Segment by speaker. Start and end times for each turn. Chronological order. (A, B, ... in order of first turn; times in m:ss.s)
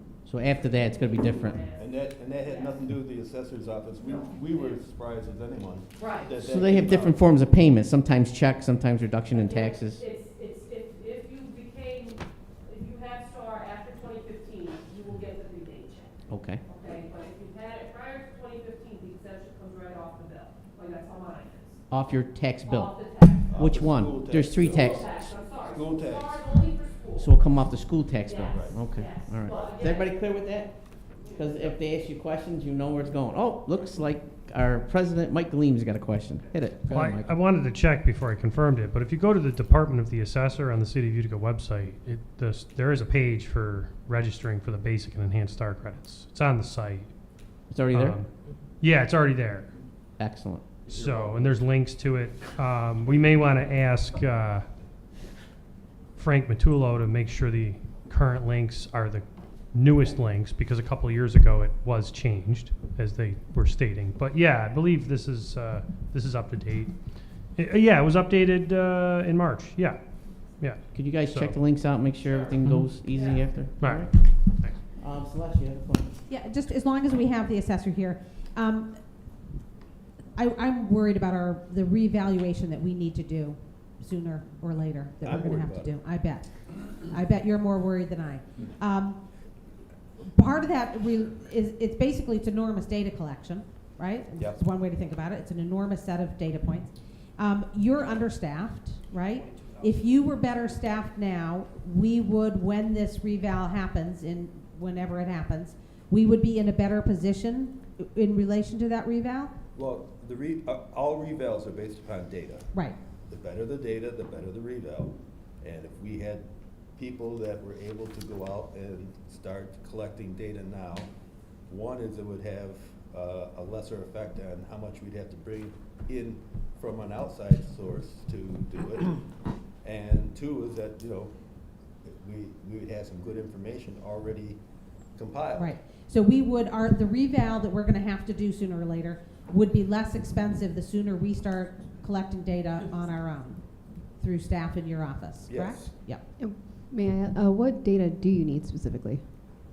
0:00.2-0:01.6 A
0:00.4-0:02.8 B
0:01.8-0:07.3 C
0:04.0-0:04.8 B
0:06.0-0:06.4 B
0:06.4-0:10.0 A
0:09.3-0:16.1 B
0:16.3-0:16.6 A
0:16.6-0:21.8 B
0:21.9-0:23.0 A
0:22.6-0:23.5 B
0:23.5-0:26.5 C
0:23.5-0:25.3 A
0:24.5-0:27.4 B
0:27.2-0:30.7 A
0:28.2-0:30.2 B
0:28.5-0:28.8 C
0:31.2-0:31.8 B
0:31.3-0:37.4 A
0:36.9-0:47.2 D
0:47.7-0:48.2 A
0:47.9-0:49.7 D
0:50.2-0:50.9 A
0:50.9-0:51.7 C
0:50.9-0:54.7 D
0:56.2-1:06.9 D
1:07.5-1:11.6 D
1:10.9-1:14.3 A
1:13.1-1:13.5 B
1:13.8-1:14.8 D
1:15.0-1:16.2 A
1:16.3-1:18.9 E
1:20.3-1:29.2 E
1:25.2-1:25.9 C
1:30.2-1:49.5 E
1:49.8-1:52.7 C
1:53.3-2:01.1 C
2:01.7-2:09.2 C
2:09.8-2:11.3 C
2:12.0-2:14.6 C
2:15.1-2:15.8 C
2:15.6-2:23.6 E
2:24.1-2:26.2 E
2:25.5-2:25.9 C
2:26.4-2:29.2 F